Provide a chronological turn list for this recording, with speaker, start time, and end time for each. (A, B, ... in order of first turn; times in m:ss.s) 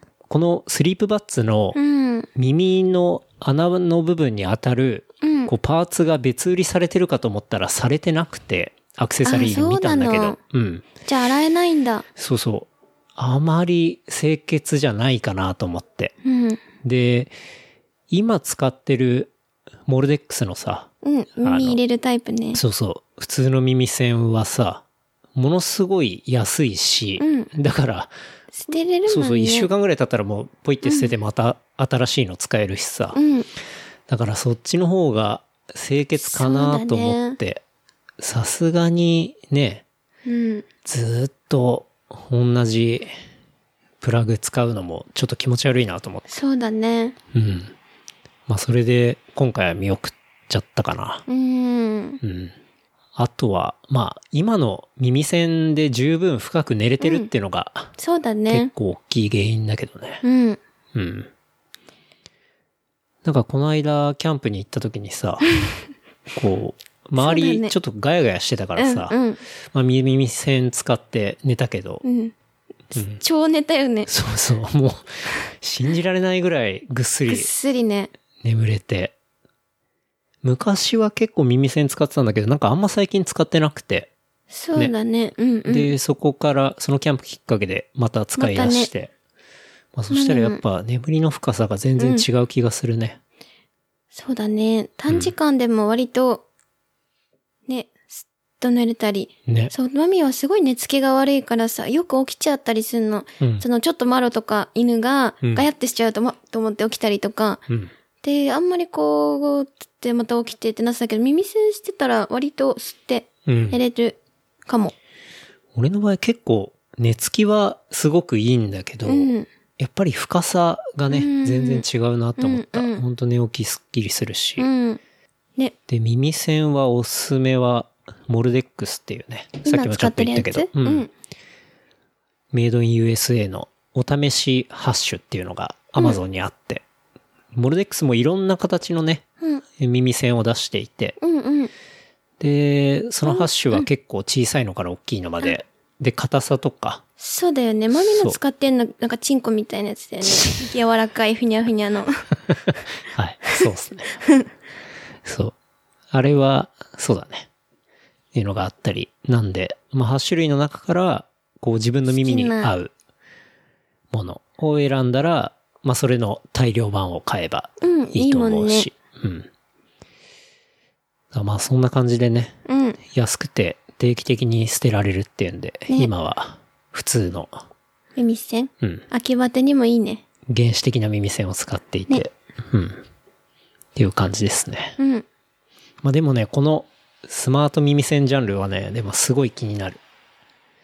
0:00.3-0:01.8 A
0:01.7-0:02.3 B
0:02.3-0:10.9 A
0:05.2-0:05.5 B
0:09.2-0:10.4 B
0:11.0-0:12.0 B
0:12.2-0:16.1 A
0:16.2-0:16.6 B
0:16.8-0:17.3 A
0:18.1-0:19.3 A
0:19.9-0:20.9 A
0:21.0-0:22.6 B
0:21.4-0:21.8 A
0:22.5-0:24.8 A
0:25.3-0:28.1 A
0:27.2-0:27.5 B
0:28.5-0:29.7 B
0:29.1-0:33.2 A
0:30.8-0:31.1 B
0:33.1-0:33.5 B
0:34.1-0:37.6 A
0:36.2-0:37.4 B
0:38.2-0:39.8 A
0:40.2-0:40.6 B
0:40.8-0:43.1 A
0:44.0-0:46.3 A
0:46.3-0:47.2 B
0:47.3-0:47.7 A
0:48.5-0:51.2 A
0:51.3-0:52.2 B
0:52.2-0:52.5 A
0:53.1-0:57.9 A
0:57.0-0:57.3 B
0:58.0-0:58.7 B
0:58.5-1:00.2 A
1:00.2-1:00.6 B
1:00.9-1:01.3 A
1:03.2-1:05.5 A
1:06.3-1:09.1 A
1:07.2-1:07.7 B
1:08.8-1:09.4 B
1:09.7-1:12.0 A
1:12.0-1:12.3 B
1:12.9-1:13.2 A
1:12.9-1:14.1 B
1:14.1-1:17.5 A
1:17.3-1:18.1 B
1:18.4-1:19.1 A
1:20.4-1:24.1 A
1:24.5-1:25.9 B
1:25.6-1:29.1 A
1:28.4-1:28.9 B
1:29.9-1:33.2 A
1:30.1-1:30.6 B
1:32.0-1:32.2 B
1:34.1-1:36.4 B
1:37.7-1:47.6 B
1:39.4-1:39.7 A
1:43.4-1:43.6 A
1:48.2-1:54.9 B
1:53.4-1:53.8 A
1:55.7-2:04.7 A
1:59.0-1:59.5 B
2:01.1-2:01.8 B
2:02.4-2:03.0 B
2:04.6-2:05.0 B
2:05.9-2:11.1 A
2:09.6-2:11.1 B
2:12.5-2:16.8 A
2:17.5-2:19.2 A
2:19.8-2:21.2 A
2:21.2-2:21.7 B
2:22.4-2:27.0 A
2:23.2-2:23.9 B
2:27.2-2:32.2 B
2:27.9-2:28.4 A
2:33.1-2:34.2 A
2:35.2-2:35.5 A
2:36.1-2:37.5 A
2:38.3-2:42.9 A
2:42.1-2:42.7 B
2:44.1-2:49.5 A
2:47.8-2:48.9 B
2:51.3-2:57.6 A
2:52.6-2:53.0 B
2:58.2-3:00.2 B
3:00.5-3:03.0 A
3:03.9-3:05.0 A
3:05.0-3:05.2 B
3:06.0-3:10.0 A